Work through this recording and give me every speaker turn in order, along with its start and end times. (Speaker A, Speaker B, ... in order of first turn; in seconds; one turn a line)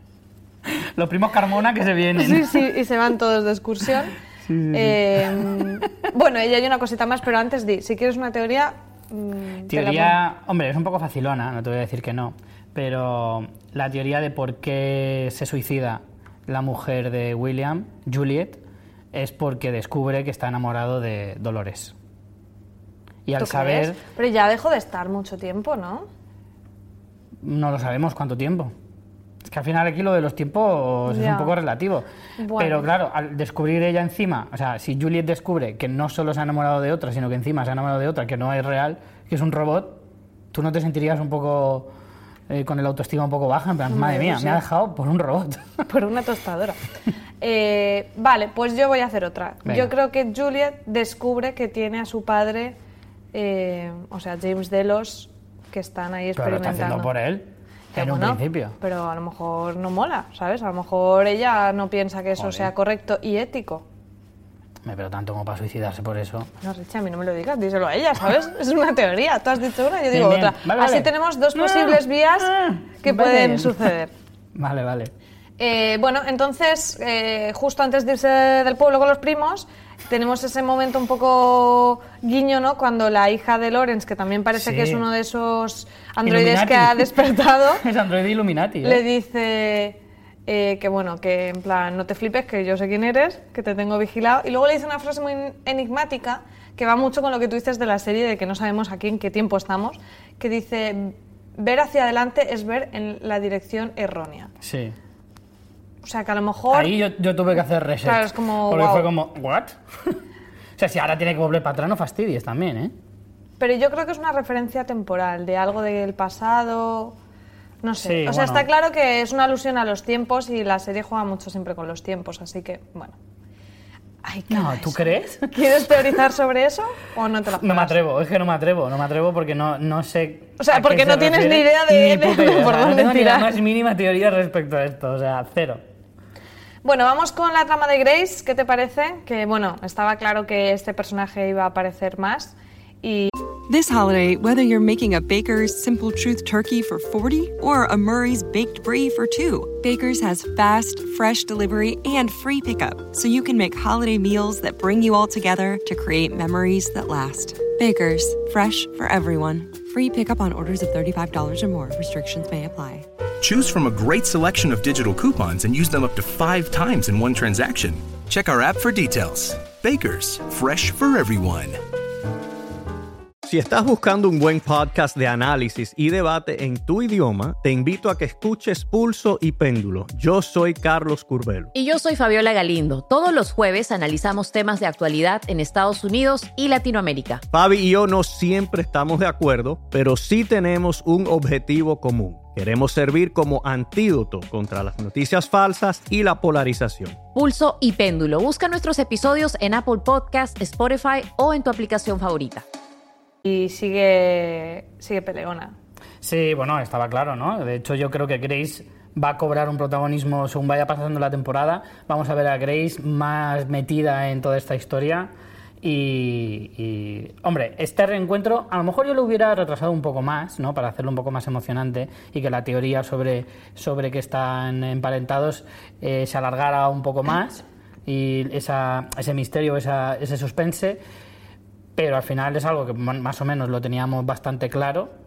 Speaker A: 0.7-2.6
Speaker B: 2.2-4.2
Speaker A: 4.5-5.8
Speaker B: 4.7-10.2
Speaker A: 9.7-18.6
Speaker A: 19.1-21.9
Speaker A: 23.3-24.0
Speaker B: 23.4-26.1
Speaker A: 27.4-28.7
Speaker A: 29.4-40.0
Speaker B: 31.1-31.5
Speaker B: 32.4-32.9
Speaker A: 40.5-41.9
Speaker A: 42.5-45.9
Speaker B: 43.9-44.6
Speaker B: 45.9-46.8
Speaker B: 47.4-52.8
Speaker A: 49.6-49.9
Speaker B: 53.3-57.1
Speaker A: 56.4-58.8
Speaker B: 57.9-63.9
Speaker A: 62.4-62.7
Speaker A: 64.8-66.5
Speaker B: 66.6-74.1
Speaker A: 70.1-73.9
Speaker A: 74.5-75.1
Speaker B: 75.6-87.8
Speaker A: 84.6-85.0
Speaker A: 86.2-87.2
Speaker A: 87.8-89.0
Speaker B: 88.8-104.5
Speaker A: 104.6-105.0
Speaker B: 106.0-107.0
Speaker A: 106.7-110.2
Speaker B: 108.0-109.1
Speaker A: 110.8-112.9
Speaker B: 113.6-117.2
Speaker B: 117.8-123.2
Speaker A: 118.0-118.7
Speaker B: 124.2-128.0
Speaker A: 124.5-126.0
Speaker A: 127.6-135.8
Speaker B: 130.6-133.5
Speaker B: 136.8-143.3
Speaker C: 143.7-163.1
Speaker D: 163.4-171.8
Speaker E: 173.4-181.7
Speaker F: 181.7-187.4
Speaker E: 187.5-197.2
Speaker F: 197.3-202.6
Speaker B: 203.4-205.8
Speaker A: 206.2-215.3
Speaker A: 215.8-231.0
Speaker A: 232.0-235.1